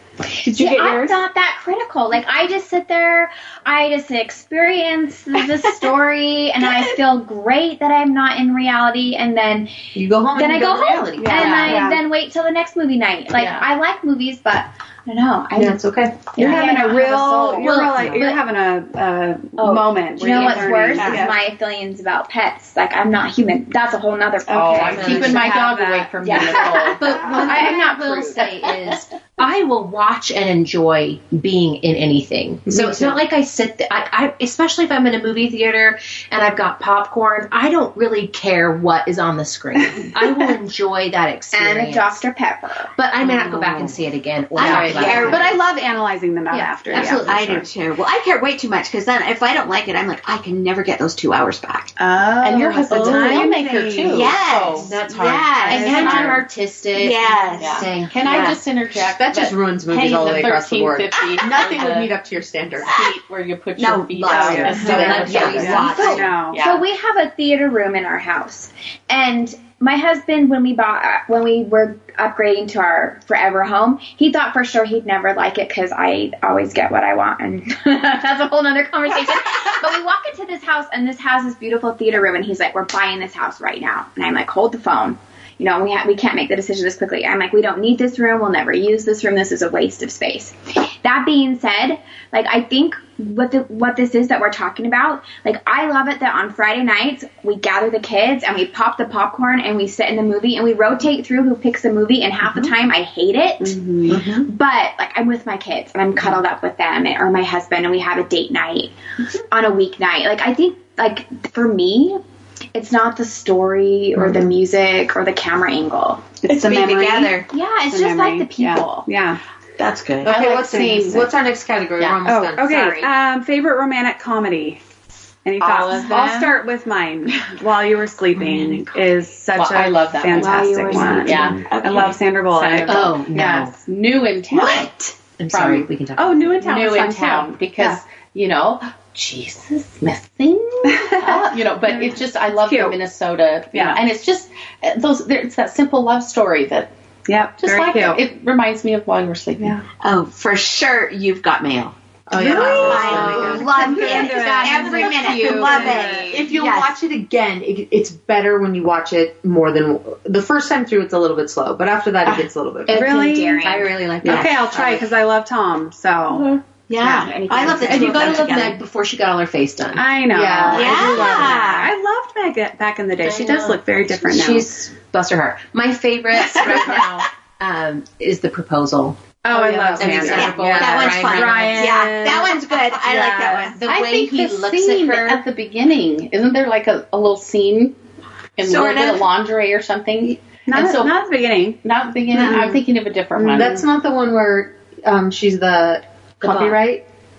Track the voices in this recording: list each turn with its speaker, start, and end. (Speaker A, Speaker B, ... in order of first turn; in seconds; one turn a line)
Speaker A: 0.3-9.8
Speaker B: 0.4-1.2
Speaker C: 9.9-11.6
Speaker A: 10.3-17.9
Speaker B: 11.2-12.0
Speaker D: 11.3-11.9
Speaker D: 13.3-13.6
Speaker C: 15.6-16.4
Speaker B: 16.4-21.4
Speaker E: 17.6-18.4
Speaker A: 19.6-25.7
Speaker F: 21.0-21.3
Speaker B: 24.5-26.7
Speaker D: 24.5-29.0
Speaker E: 24.7-25.5
Speaker A: 26.2-27.8
Speaker E: 26.9-42.2
Speaker D: 32.7-33.1
Speaker A: 41.5-42.9
Speaker E: 43.0-45.5
Speaker F: 43.4-43.9
Speaker F: 44.6-45.6
Speaker B: 44.6-47.3
Speaker E: 46.5-47.7
Speaker F: 47.0-52.0
Speaker B: 52.0-54.4
Speaker D: 52.4-55.0
Speaker F: 54.0-56.2
Speaker E: 54.8-58.6
Speaker D: 55.6-56.5
Speaker B: 56.0-56.3
Speaker F: 56.9-57.9
Speaker D: 57.6-62.1
Speaker C: 59.1-63.0
Speaker D: 62.9-66.8
Speaker F: 63.8-66.3
Speaker B: 64.2-66.6
Speaker C: 64.8-65.7
Speaker E: 64.8-66.3
Speaker A: 65.9-108.9
Speaker B: 103.6-104.2
Speaker F: 104.1-104.5
Speaker A: 109.5-112.2
Speaker A: 112.7-116.3
Speaker B: 116.4-119.4
Speaker F: 116.5-117.5
Speaker A: 117.5-119.1
Speaker F: 119.8-120.4
Speaker C: 120.2-122.8
Speaker D: 120.2-121.3
Speaker B: 120.7-121.2
Speaker B: 122.2-124.8
Speaker A: 122.6-123.1
Speaker B: 125.5-133.0
Speaker D: 125.6-126.5
Speaker F: 128.5-128.8
Speaker D: 129.6-131.7
Speaker F: 130.4-132.2
Speaker D: 132.5-135.0
Speaker E: 132.9-133.7
Speaker F: 134.5-134.9
Speaker E: 135.4-136.6
Speaker D: 135.5-135.9
Speaker B: 136.2-138.0
Speaker D: 136.6-146.9
Speaker B: 140.9-143.0
Speaker B: 143.7-144.0
Speaker B: 147.3-148.2
Speaker D: 147.6-149.8
Speaker F: 150.0-157.0
Speaker C: 152.3-153.8
Speaker B: 152.4-156.5
Speaker E: 152.9-153.6
Speaker A: 153.5-156.4
Speaker C: 155.2-163.1
Speaker E: 162.9-164.8
Speaker B: 162.9-166.5
Speaker A: 162.9-163.9
Speaker F: 164.2-164.5
Speaker C: 164.3-165.0
Speaker E: 166.3-166.6
Speaker F: 166.9-168.8
Speaker A: 167.0-168.6
Speaker E: 167.6-171.6
Speaker B: 169.9-174.7
Speaker C: 170.3-171.5
Speaker F: 170.7-171.9
Speaker E: 173.2-179.3
Speaker B: 176.4-177.1
Speaker F: 176.5-177.2
Speaker B: 179.4-183.7
Speaker D: 179.5-180.3
Speaker C: 179.7-181.2
Speaker E: 180.0-181.9
Speaker F: 180.3-183.8
Speaker E: 183.7-185.4
Speaker D: 183.9-187.9
Speaker D: 188.6-191.1
Speaker F: 188.6-189.3
Speaker B: 190.7-191.8
Speaker D: 191.8-193.8
Speaker B: 192.4-192.7
Speaker C: 192.4-192.7
Speaker C: 193.4-197.0
Speaker B: 193.5-193.8
Speaker E: 196.4-196.8